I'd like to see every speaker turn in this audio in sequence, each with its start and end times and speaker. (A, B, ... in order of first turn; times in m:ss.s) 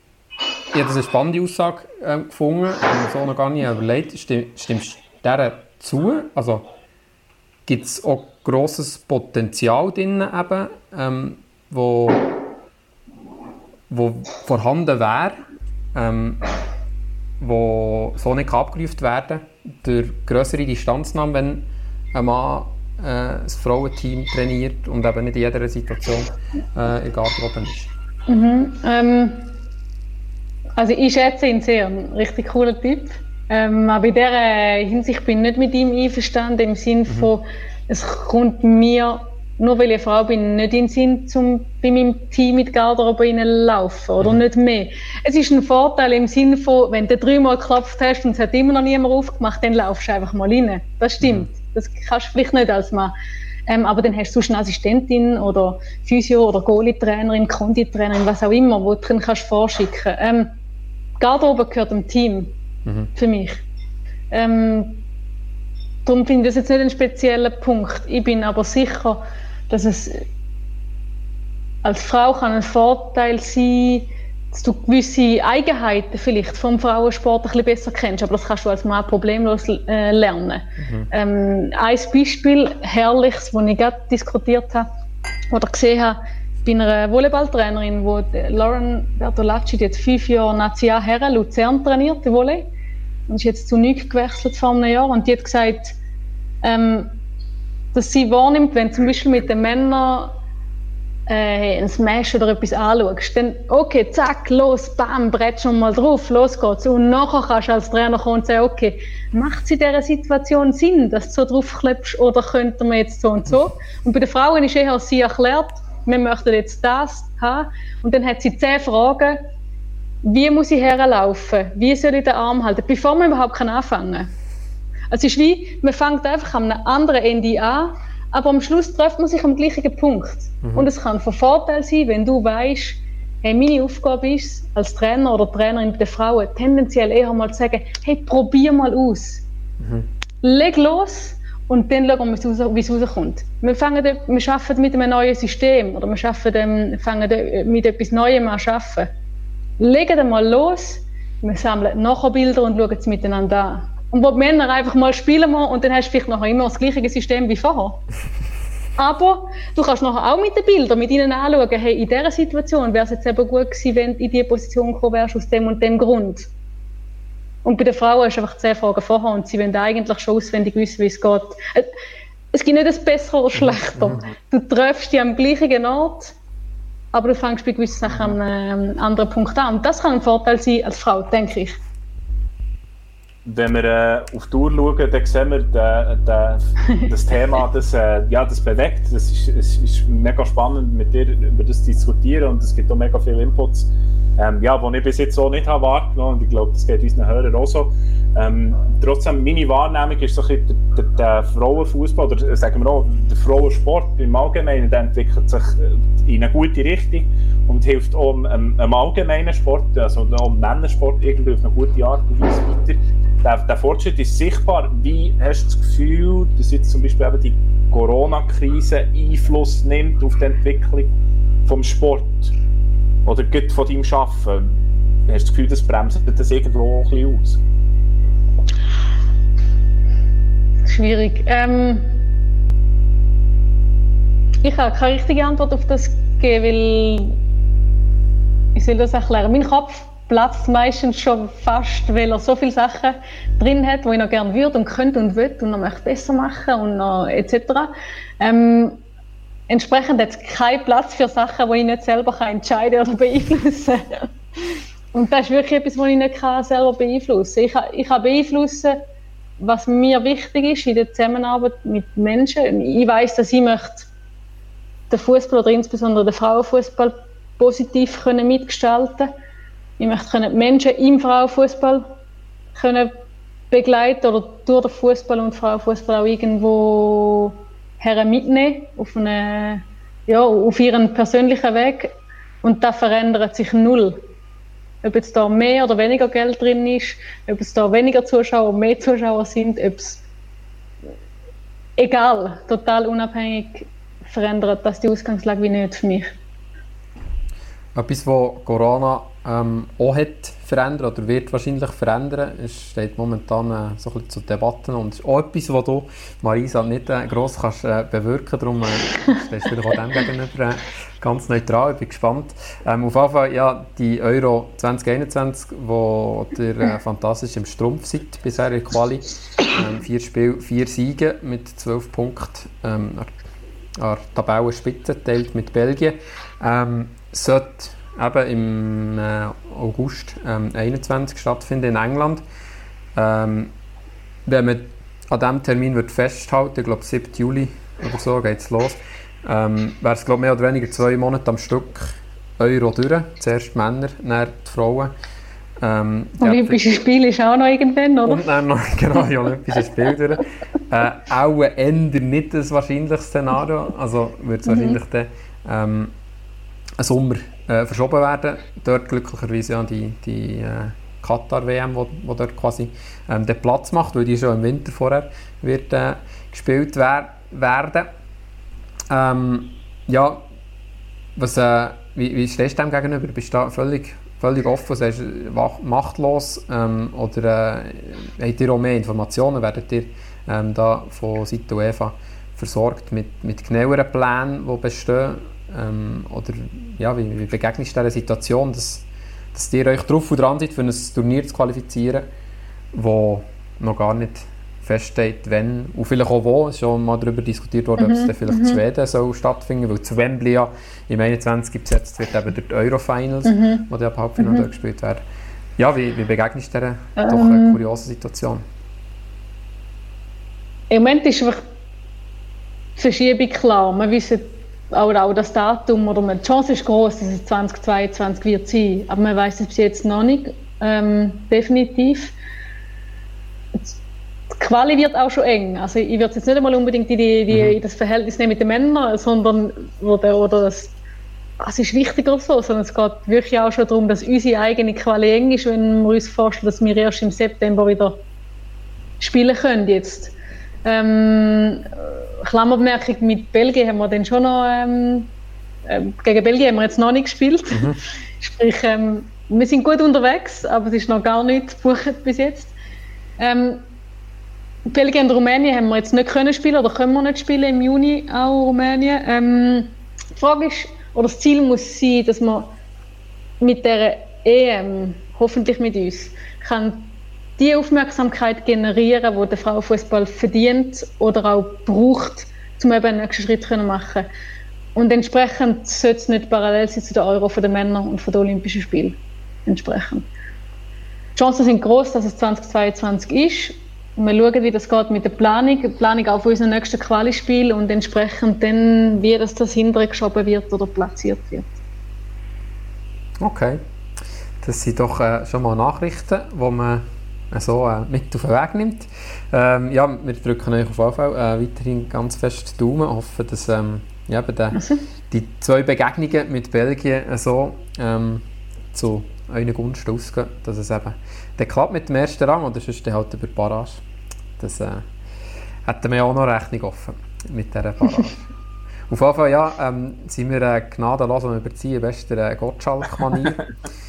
0:00.7-0:06.6 A
0:07.7-0:12.3 A
0:13.9-0:15.4 A
0:15.9-0:16.5 A
0:17.4-0:27.9 A
0:28.3-0:29.5 B
0:30.8-0:53.1 B
0:51.2-0:51.5 A
0:53.7-1:00.5 B
1:01.2-1:02.5 B
1:02.8-1:03.1 A
1:03.1-1:03.6 B
1:04.3-1:05.0 B
1:06.0-1:10.2 B
1:11.8-1:24.9 B
1:20.8-1:21.1 A
1:25.5-1:32.7 B
1:33.3-1:35.9 B
1:36.6-1:37.2 B
1:37.9-1:40.3 B
1:41.3-1:59.4 B
2:00.2-2:04.3 B
2:05.1-2:19.4 B
2:10.6-2:10.9 A
2:19.8-2:20.1 A
2:20.4-2:29.1 B
2:29.8-2:38.0 B
2:39.0-2:46.5 B
2:47.6-2:51.9 B
2:52.5-2:56.3 B
2:53.5-2:54.3 A
2:57.1-3:01.8 B
2:58.1-2:58.4 A
3:03.4-3:41.1 C
3:41.6-3:42.5 C
3:43.2-3:44.7 C
3:45.3-3:47.6 C
3:50.8-3:52.2 B
3:54.6-3:57.4 B
3:58.7-4:09.0 B
4:09.7-4:14.3 B
4:15.1-4:19.0 B
4:19.6-4:24.1 B
4:25.1-4:29.3 B
4:30.0-4:32.1 B
4:32.7-4:33.1 B
4:33.7-4:42.1 B
4:42.6-4:44.2 B
4:45.0-4:50.2 B
4:52.0-4:56.4 B
4:57.9-5:23.4 A
5:24.0-5:32.4 A
5:33.1-5:33.7 A
5:34.5-5:45.1 A
5:45.8-5:46.8 A
5:46.4-5:48.4 B
5:48.2-5:56.1 A
5:54.6-5:55.0 B
5:57.0-6:08.1 A
6:09.1-6:10.4 A
6:11.4-6:32.3 A
6:32.9-6:45.2 A
6:38.0-6:38.8 B
6:43.4-6:44.7 B
6:45.8-6:48.6 A
6:47.2-6:47.8 B
6:50.9-6:51.6 B
6:53.0-7:02.3 B
7:04.5-7:10.9 B
7:07.5-7:07.8 A
7:11.6-7:18.2 B
7:19.2-7:20.3 B
7:20.8-7:25.3 B
7:25.8-7:32.7 B
7:27.7-7:28.0 A
7:33.4-7:33.9 B
7:34.9-7:42.7 B
7:43.6-7:54.3 B
7:54.9-8:00.2 B
8:01.3-8:11.7 B
8:13.4-8:13.8 A
8:14.6-8:34.0 A
8:24.8-8:25.0 B
8:34.6-8:35.0 A
8:35.8-8:38.5 A
8:39.1-8:43.7 A